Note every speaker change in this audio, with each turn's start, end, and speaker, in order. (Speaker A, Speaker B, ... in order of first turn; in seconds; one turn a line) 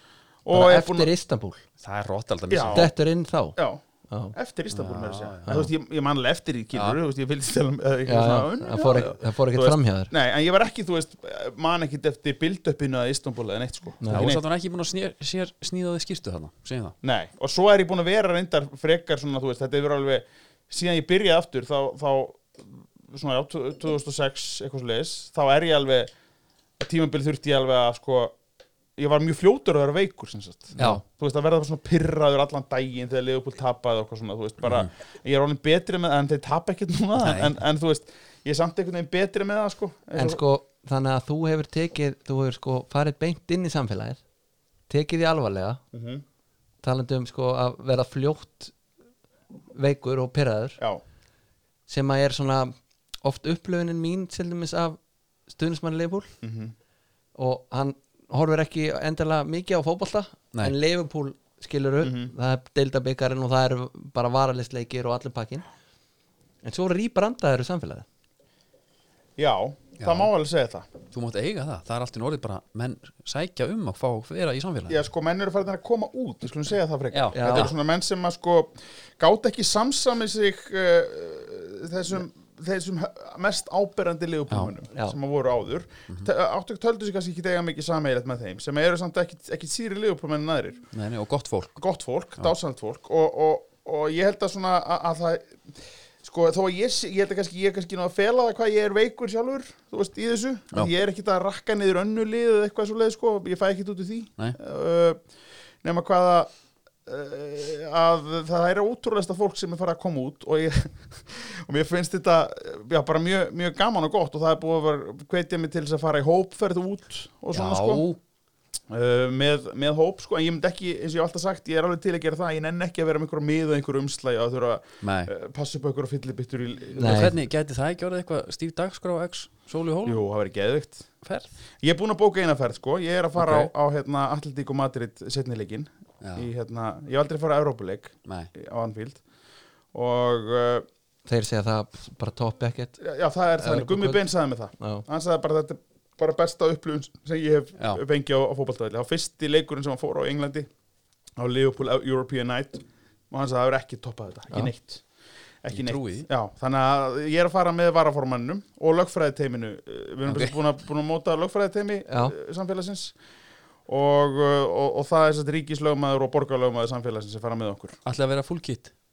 Speaker A: 0.5-1.1
Speaker B: 0.5-1.6
Speaker C: 1.8-2.9
Speaker A: 2.5-2.9
Speaker B: 2.7-3.6
Speaker A: 3.6-3.8
Speaker B: 4.1-4.3
Speaker A: 4.3-14.4
Speaker C: 4.7-5.5
Speaker C: 6.7-7.0
Speaker B: 8.1-10.1
Speaker B: 14.0-14.3
Speaker C: 14.1-17.0
Speaker A: 17.0-26.1
Speaker A: 26.8-28.4
Speaker A: 29.0-40.4
Speaker C: 30.8-31.0
Speaker C: 34.6-34.9
Speaker C: 37.2-37.6
Speaker B: 40.2-44.2
Speaker B: 44.9-45.8
Speaker A: 45.9-46.2
Speaker B: 46.8-48.7
Speaker B: 49.7-50.8
Speaker B: 51.9-56.3
Speaker A: 56.4-56.7
Speaker B: 57.4-65.7
Speaker A: 62.0-62.3
Speaker B: 66.6-68.1
Speaker A: 69.4-70.9
Speaker C: 70.0-70.3
Speaker C: 71.1-75.0
Speaker A: 74.9-90.8
Speaker C: 77.1-77.7
Speaker B: 77.3-77.7
Speaker C: 90.9-91.8
Speaker A: 91.8-95.6
Speaker A: 96.2-105.2
Speaker A: 105.8-106.5
Speaker A: 107.1-118.0
Speaker C: 117.5-118.2
Speaker A: 118.9-127.3
Speaker C: 125.0-125.3
Speaker B: 127.0-127.4
Speaker C: 127.0-130.2
Speaker A: 130.1-131.1
Speaker C: 131.2-131.5
Speaker A: 131.8-139.2
Speaker C: 133.4-133.7
Speaker C: 136.2-136.5
Speaker C: 138.3-138.5
Speaker A: 139.9-140.9
Speaker B: 141.3-143.0
Speaker A: 143.0-150.7
Speaker B: 143.6-144.3
Speaker B: 144.8-145.1
Speaker A: 151.4-155.0
Speaker A: 155.6-163.2
Speaker C: 155.7-156.3
Speaker C: 160.3-160.6
Speaker B: 162.1-162.3
Speaker A: 163.9-168.0
Speaker C: 168.1-168.9